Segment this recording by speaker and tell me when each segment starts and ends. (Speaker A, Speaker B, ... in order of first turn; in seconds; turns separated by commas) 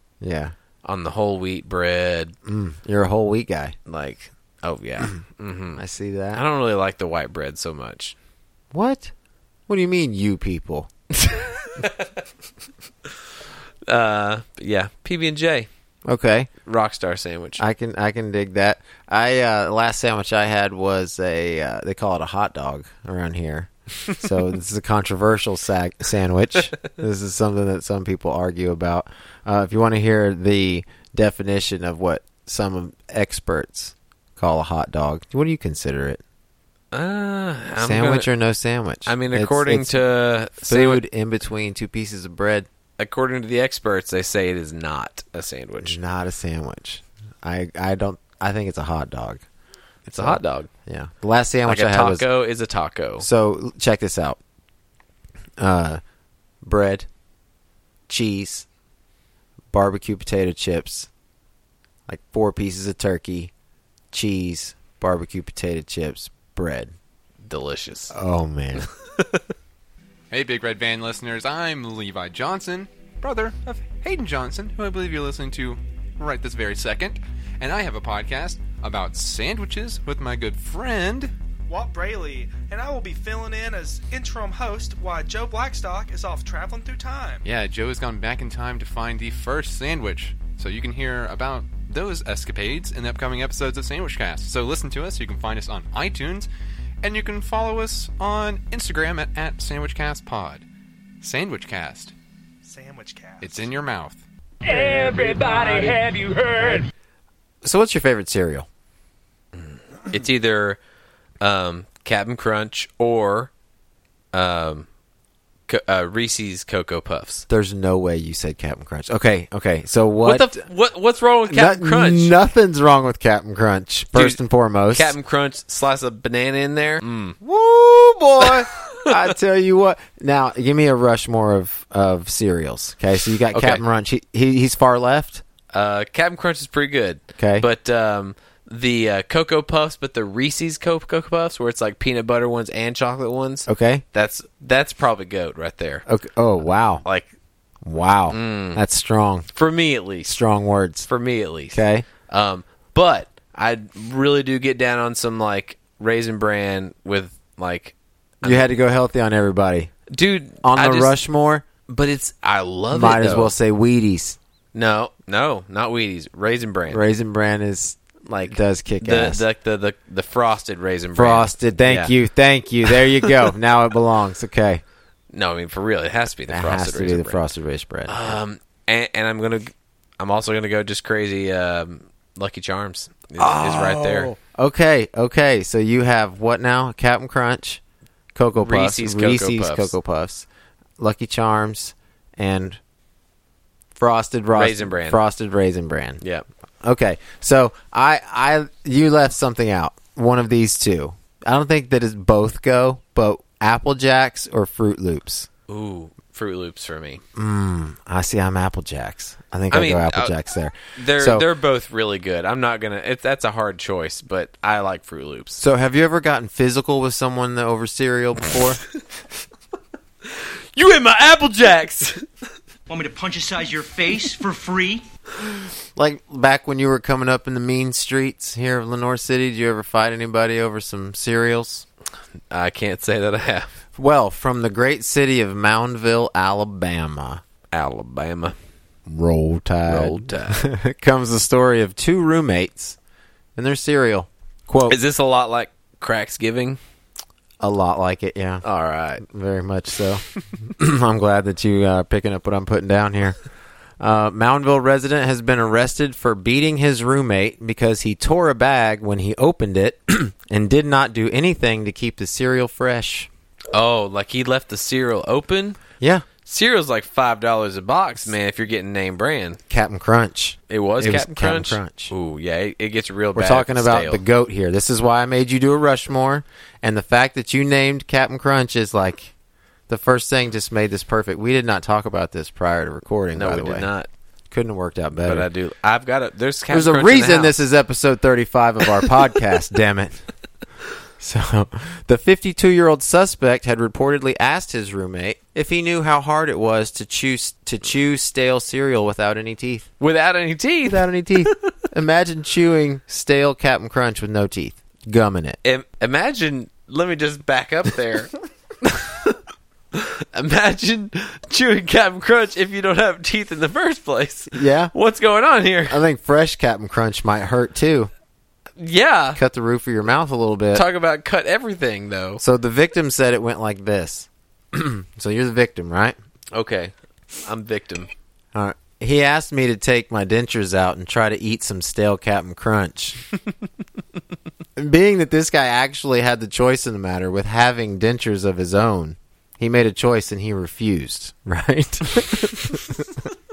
Speaker A: 0.2-0.5, Speaker B: 0.8-2.4, Speaker A: 2.4-3.7, Speaker B: 3.9-8.1, Speaker A: 5.8-6.4, Speaker A: 8.7-9.1, Speaker A: 9.7-10.9, Speaker B: 11.2-12.1, Speaker B: 13.9-15.7, Speaker A: 16.1-16.5, Speaker B: 16.6-17.6, Speaker A: 17.6-36.2, Speaker B: 36.9-38.3, Speaker A: 37.8-40.0, Speaker B: 39.0-41.0, Speaker A: 40.6-42.7, Speaker B: 43.0-46.0, Speaker A: 45.8-49.4, Speaker B: 50.1-50.7, Speaker A: 50.2-52.2, Speaker B: 51.6-53.3, Speaker A: 53.2-54.4, Speaker A: 55.6-56.0, Speaker A: 56.6-57.1, Speaker A: 58.1-58.6, Speaker A: 59.7-61.1, Speaker A: 62.1-63.5, Speaker A: 64.1-66.9, Speaker B: 67.4-68.1, Speaker A: 68.1-68.9, Speaker B: 68.8-69.4, Speaker C: 70.3-81.3, Speaker D: 81.7-87.4, Speaker C: 87.4-96.5, Speaker C: 97.0-100.6, Speaker C: 101.2-102.1, Speaker D: 102.6-103.7, Speaker C: 103.4-104.2, Speaker E: 104.6-106.9, Speaker A: 107.6-108.7, Speaker B: 109.5-110.8, Speaker B: 111.4-113.5, Speaker B: 114.3-114.9, Speaker B: 115.7-117.5, Speaker A: 117.5-120.6, Speaker B: 120.2-122.3, Speaker A: 121.5-125.1, Speaker B: 124.1-124.4, Speaker B: 124.9-127.4, Speaker A: 127.4-135.4, Speaker B: 128.5-129.1, Speaker B: 133.5-133.8, Speaker B: 135.7-146.0, Speaker A: 137.4-137.7, Speaker A: 143.7-144.0, Speaker A: 146.1-147.0, Speaker B: 147.0-147.3, Speaker A: 147.8-149.5, Speaker B: 148.3-148.8, Speaker B: 149.5-150.3, Speaker A: 150.2-151.1, Speaker B: 151.1-158.6, Speaker A: 151.7-152.1, Speaker A: 158.4-159.9, Speaker B: 160.1-161.2, Speaker A: 160.6-161.6, Speaker B: 161.9-163.5, Speaker A: 162.9-164.4, Speaker B: 164.7-167.0, Speaker A: 166.9-169.4, Speaker B: 168.2-172.1, Speaker A: 171.1-174.8, Speaker B: 175.3-177.4, Speaker A: 176.5-178.4, Speaker B: 178.1-184.3, Speaker A: 183.4-187.8, Speaker A: 188.3-190.4, Speaker B: 188.6-189.9, Speaker A: 191.0-192.8, Speaker A: 193.9-196.2, Speaker B: 194.5-195.2, Speaker B: 196.2-196.4, Speaker A: 196.8-205.5, Speaker B: 205.7-207.2, Speaker A: 207.3-211.4, Speaker B: 209.7-210.3, Speaker B: 210.9-215.6, Speaker A: 215.6-218.8, Speaker B: 220.7-222.2, Speaker F: 222.9-225.0, Speaker A: 225.9-231.8, Speaker B: 232.5-233.7, Speaker A: 233.9-237.4, Speaker B: 237.7-238.6, Speaker A: 239.1-243.0, Speaker B: 239.9-240.7, Speaker A: 243.5-245.0, Speaker B: 244.9-246.8, Speaker A: 247.6-248.6, Speaker B: 248.6-249.2, Speaker A: 249.2-253.4, Speaker A: 254.0-263.3, Speaker B: 263.7-265.8, Speaker A: 266.0-266.2, Speaker B: 266.4-269.6, Speaker A: 269.7-272.1, Speaker B: 270.7-274.2, Speaker A: 273.3-279.3, Speaker A: 279.9-283.9, Speaker B: 283.3-284.1, Speaker A: 284.5-285.5, Speaker B: 285.2-287.6, Speaker A: 286.7-290.2, Speaker A: 291.2-299.9, Speaker B: 300.0-301.7, Speaker A: 300.9-305.6, Speaker B: 305.6-308.3, Speaker B: 308.8-309.4, Speaker B: 309.9-316.0, Speaker A: 314.5-314.9, Speaker A: 315.9-318.1, Speaker B: 318.8-319.4, Speaker A: 319.3-320.9, Speaker B: 320.7-322.4, Speaker A: 322.4-326.2, Speaker B: 326.5-328.1, Speaker A: 328.5-333.2, Speaker A: 334.8-343.3